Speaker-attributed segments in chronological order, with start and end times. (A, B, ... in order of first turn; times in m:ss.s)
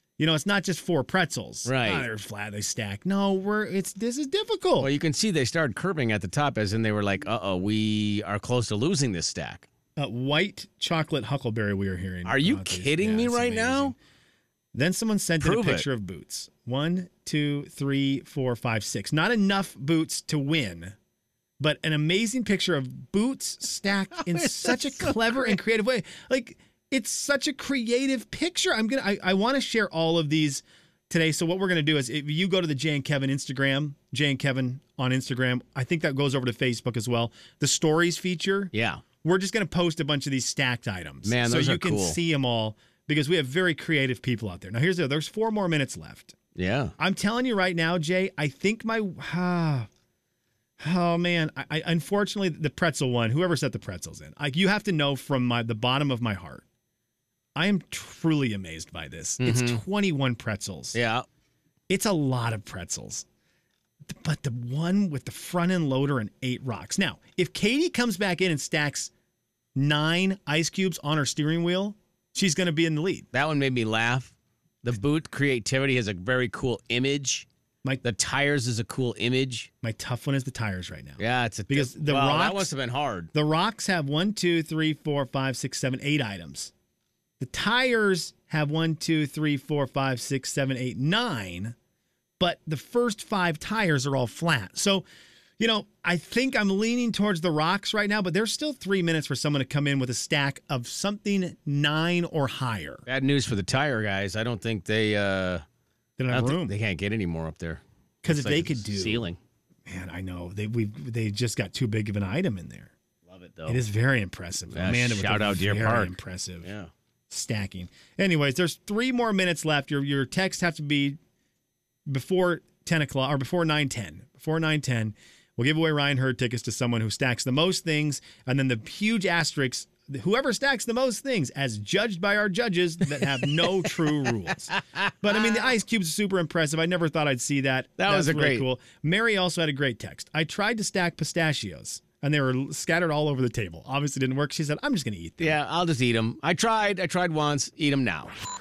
0:00.2-0:04.9 A
0:01.6-0:02.0 B
0:04.8-0:09.6 B
0:10.0-0:13.9 A
0:12.2-0:13.9 B
0:14.7-0:20.9 A
0:15.4-0:15.9 B
0:21.6-0:38.7 A
0:24.1-0:25.6 B
0:38.7-0:39.0 B
0:39.2-0:46.4 A
0:41.2-0:42.2 B
0:46.6-0:46.9 B
0:47.0-0:49.9 A
0:50.8-0:56.6 A
0:57.5-1:01.0 A
0:59.4-0:59.8 B
1:00.9-1:01.2 B
1:01.9-1:03.2 A
1:04.0-1:09.1 A
1:09.7-1:13.3 A
1:13.3-1:14.3 B
1:14.8-1:17.4 B
1:18.0-1:19.7 B
1:19.8-1:22.7 A
1:21.2-1:23.3 B
1:23.3-1:26.7 A
1:27.4-1:31.8 A
1:32.4-1:35.0 A
1:35.6-1:43.0 A
1:43.1-1:45.6 B
1:46.2-1:46.7 A
1:46.3-1:49.4 B
1:48.2-1:49.2 A
1:49.8-1:52.9 A
1:53.3-1:53.8 B
1:53.7-1:56.7 A
1:54.7-1:56.9 B
1:57.3-2:01.2 A
2:02.1-2:25.6 A
2:14.7-2:15.4 B
2:18.0-2:18.6 B
2:25.4-2:28.3 B